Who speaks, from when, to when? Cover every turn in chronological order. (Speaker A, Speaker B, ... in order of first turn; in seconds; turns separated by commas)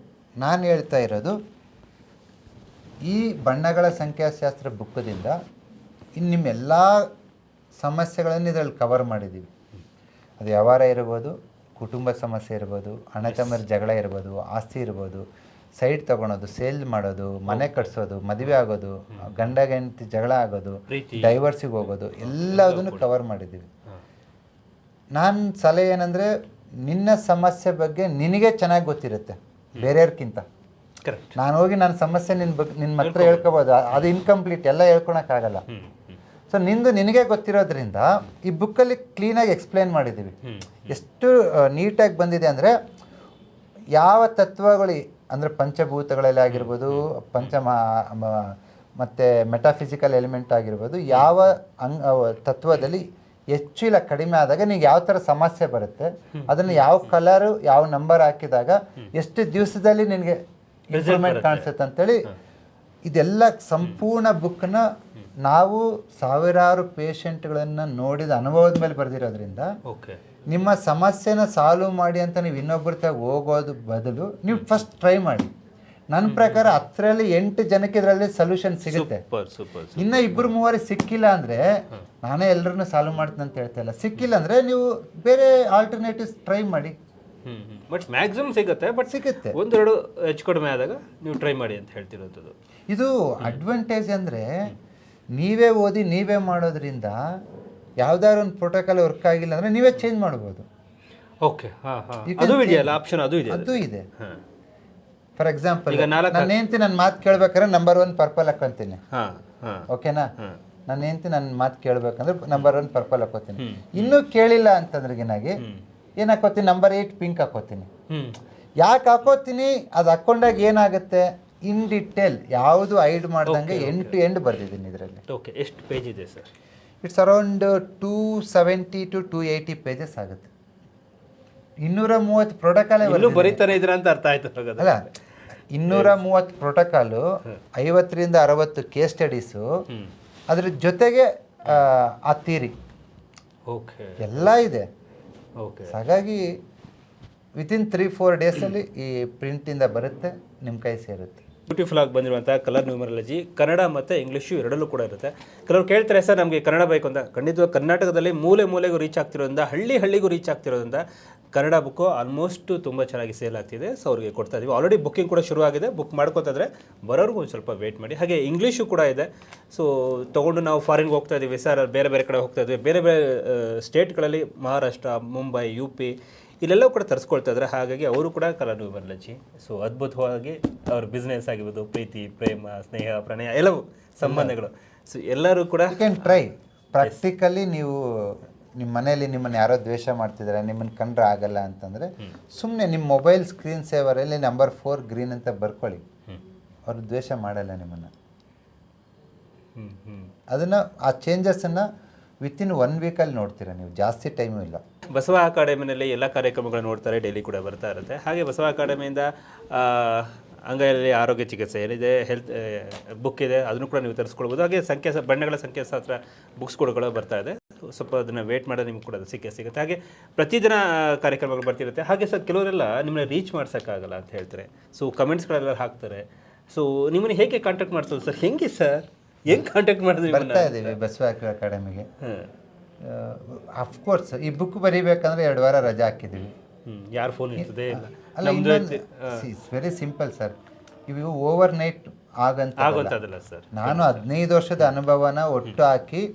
Speaker A: 0.4-1.4, Speaker A: 3.0-5.4, Speaker A: 6.2-7.1, Speaker A: 7.8-9.5, Speaker A: 10.4-15.2, Speaker B: 13.2-13.6, Speaker A: 15.8-23.7, Speaker B: 17.5-17.8, Speaker B: 19.1-19.5, Speaker B: 20.9-21.4, Speaker B: 22.2-23.1, Speaker A: 25.2-26.3, Speaker A: 26.9-30.4, Speaker B: 31.0-31.4, Speaker A: 31.4-35.6, Speaker B: 33.0-34.0, Speaker B: 35.7-36.2, Speaker A: 36.5-40.4, Speaker B: 40.4-41.0, Speaker A: 40.9-42.7, Speaker A: 44.0-62.3, Speaker B: 46.5-47.5, Speaker B: 51.1-51.4, Speaker B: 56.6-57.0, Speaker B: 60.9-61.7, Speaker A: 63.1-64.8, Speaker A: 65.4-69.7, Speaker B: 69.9-70.2, Speaker A: 70.5-75.5, Speaker B: 74.5-74.8, Speaker A: 76.1-79.2, Speaker B: 76.3-76.8, Speaker B: 78.9-80.5, Speaker A: 80.0-87.0, Speaker B: 87.5-92.5, Speaker A: 89.1-89.6, Speaker A: 92.9-94.8, Speaker A: 95.4-97.2, Speaker A: 98.0-100.7, Speaker B: 101.4-104.4, Speaker A: 102.3-104.0, Speaker A: 105.4-109.0, Speaker B: 105.9-106.5, Speaker B: 109.1-109.9, Speaker A: 109.9-110.3, Speaker A: 110.9-115.6, Speaker B: 113.6-114.2, Speaker A: 116.2-117.9, Speaker B: 118.1-118.4, Speaker A: 118.8-125.2, Speaker B: 123.4-124.2, Speaker B: 125.3-126.5, Speaker A: 127.0-130.5, Speaker A: 131.8-133.6, Speaker B: 133.0-135.1, Speaker A: 134.8-135.1, Speaker A: 135.7-137.2, Speaker B: 135.9-136.2, Speaker A: 137.8-139.7, Speaker A: 140.5-142.8, Speaker B: 143.7-144.5, Speaker A: 144.2-144.9, Speaker B: 145.6-146.0, Speaker A: 145.9-146.5, Speaker A: 147.6-151.4, Speaker B: 151.7-186.4, Speaker A: 184.2-184.6, Speaker A: 185.9-196.0, Speaker A: 196.9-198.1, Speaker B: 199.8-200.3, Speaker A: 200.5-201.9, Speaker A: 202.4-204.8, Speaker B: 205.1-231.0, Speaker A: 230.3-232.1, Speaker B: 232.2-232.5, Speaker A: 233.0-236.5, Speaker B: 236.4-239.5, Speaker A: 237.6-240.6, Speaker A: 241.1-243.2, Speaker B: 242.8-244.3, Speaker A: 243.7-246.3